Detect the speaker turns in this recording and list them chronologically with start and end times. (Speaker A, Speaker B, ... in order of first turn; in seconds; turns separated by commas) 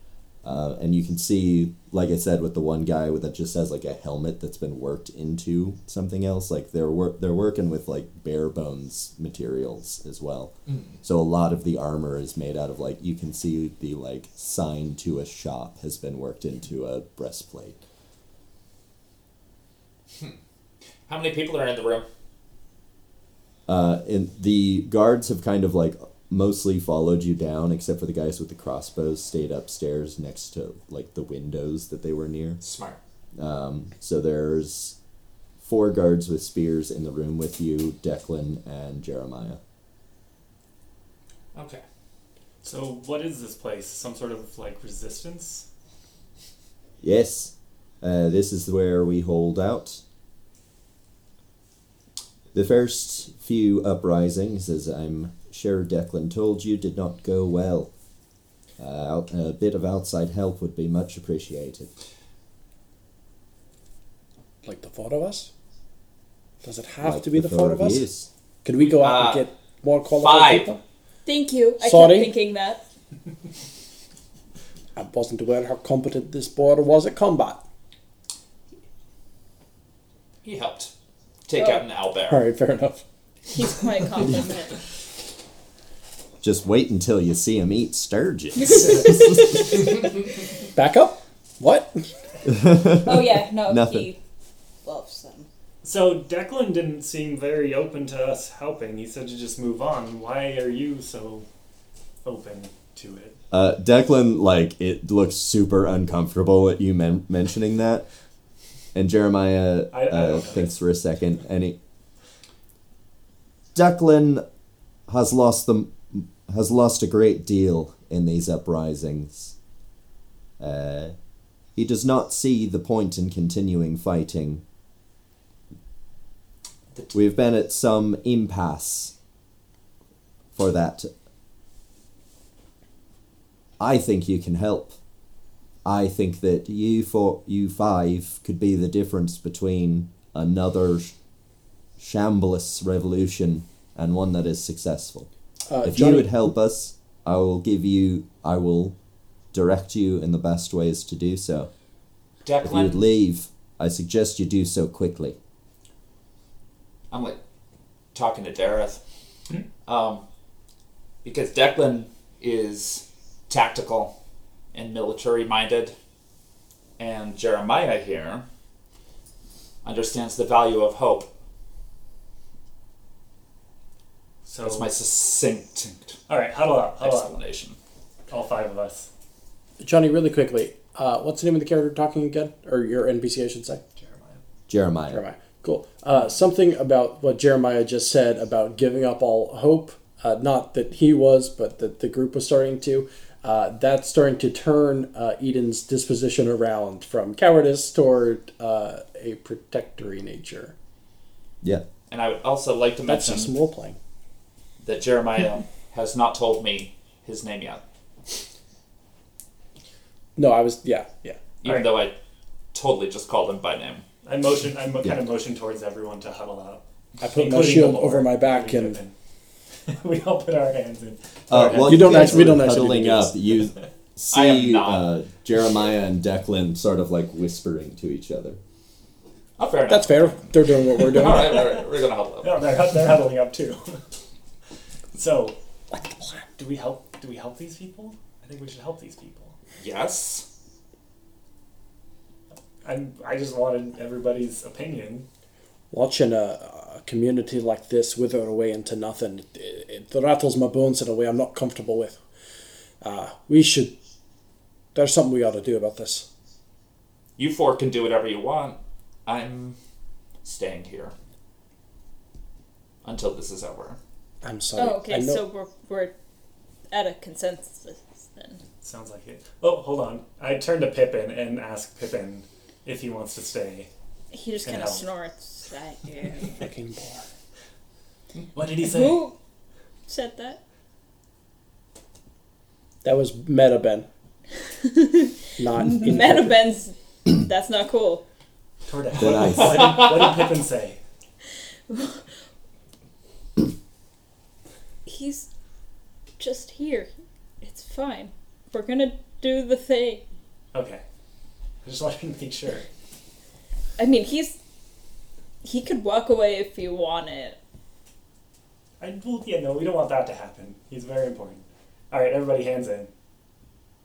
Speaker A: 0.4-17.8, Speaker B: 10.7-10.9, Speaker B: 21.1-22.1, Speaker A: 23.7-32.6, Speaker B: 32.6-33.0, Speaker A: 33.4-35.0, Speaker A: 35.6-39.6, Speaker B: 41.5-41.8, Speaker C: 42.6-45.7, Speaker A: 47.0-50.0, Speaker A: 52.5-57.9, Speaker A: 58.8-61.9, Speaker D: 64.6-65.5, Speaker D: 66.6-68.1, Speaker A: 67.0-68.3, Speaker D: 68.6-70.8, Speaker B: 68.8-69.5, Speaker B: 70.1-70.8, Speaker E: 71.3-72.8, Speaker D: 71.8-72.3, Speaker D: 75.0-77.6, Speaker B: 80.4-80.9, Speaker B: 81.5-82.4, Speaker D: 82.3-83.0, Speaker E: 83.5-84.8, Speaker A: 86.4-89.8, Speaker E: 88.7-89.5, Speaker D: 90.7-92.1, Speaker A: 92.5-94.1, Speaker E: 93.0-94.2, Speaker E: 94.8-95.5, Speaker C: 95.8-101.5, Speaker C: 102.2-103.4, Speaker A: 103.5-108.0, Speaker A: 108.9-111.8, Speaker C: 109.9-110.7, Speaker A: 113.7-114.4, Speaker A: 115.1-119.5, Speaker A: 120.6-121.2, Speaker A: 121.8-124.6, Speaker A: 127.1-129.1, Speaker A: 130.6-131.1, Speaker A: 133.8-135.0, Speaker A: 135.8-141.1, Speaker A: 142.0-145.3, Speaker D: 145.7-146.3, Speaker A: 145.8-149.0, Speaker A: 149.5-151.7, Speaker B: 152.4-153.1, Speaker A: 152.6-155.4, Speaker B: 157.1-157.4, Speaker B: 158.1-159.0, Speaker B: 159.9-160.2, Speaker B: 161.2-164.2, Speaker B: 164.7-165.9, Speaker B: 167.0-168.4, Speaker B: 169.8-171.3, Speaker C: 174.4-174.9, Speaker B: 174.6-176.2, Speaker C: 176.3-177.3, Speaker B: 177.0-177.8, Speaker C: 178.3-179.1, Speaker D: 179.8-183.8, Speaker C: 184.0-184.4, Speaker A: 184.7-185.2, Speaker D: 185.1-200.7, Speaker B: 202.1-203.5, Speaker D: 203.1-204.0, Speaker B: 204.8-207.8, Speaker D: 210.4-211.4, Speaker B: 211.6-212.2, Speaker C: 211.7-211.9, Speaker B: 212.7-214.1, Speaker C: 214.2-219.1, Speaker D: 217.2-219.0, Speaker C: 219.9-222.7, Speaker A: 221.5-228.6, Speaker D: 221.8-223.3, Speaker B: 224.3-225.1, Speaker B: 229.6-232.6, Speaker D: 229.9-231.7, Speaker C: 232.4-234.0, Speaker C: 235.1-235.6, Speaker C: 236.6-239.6, Speaker B: 239.8-240.5, Speaker C: 242.8-245.3, Speaker D: 245.9-252.2, Speaker D: 253.0-253.9, Speaker D: 254.9-256.3, Speaker B: 257.4-259.8, Speaker B: 260.4-261.1, Speaker B: 263.0-264.0, Speaker D: 264.4-265.4, Speaker E: 264.8-266.1, Speaker E: 266.9-268.6, Speaker C: 268.8-273.9, Speaker E: 274.3-276.6, Speaker C: 274.6-275.1, Speaker D: 276.6-277.2, Speaker C: 278.5-279.3, Speaker E: 278.8-279.4, Speaker E: 280.1-280.6, Speaker D: 283.0-284.1, Speaker E: 284.8-288.2, Speaker D: 285.6-286.6, Speaker C: 288.9-291.0, Speaker A: 289.2-290.0, Speaker B: 289.5-290.3, Speaker E: 291.9-292.3, Speaker E: 295.1-295.5, Speaker E: 296.4-297.1, Speaker E: 297.6-300.2, Speaker C: 300.7-301.0, Speaker C: 301.8-302.9, Speaker E: 304.0-304.6, Speaker E: 305.6-307.6, Speaker C: 309.0-313.1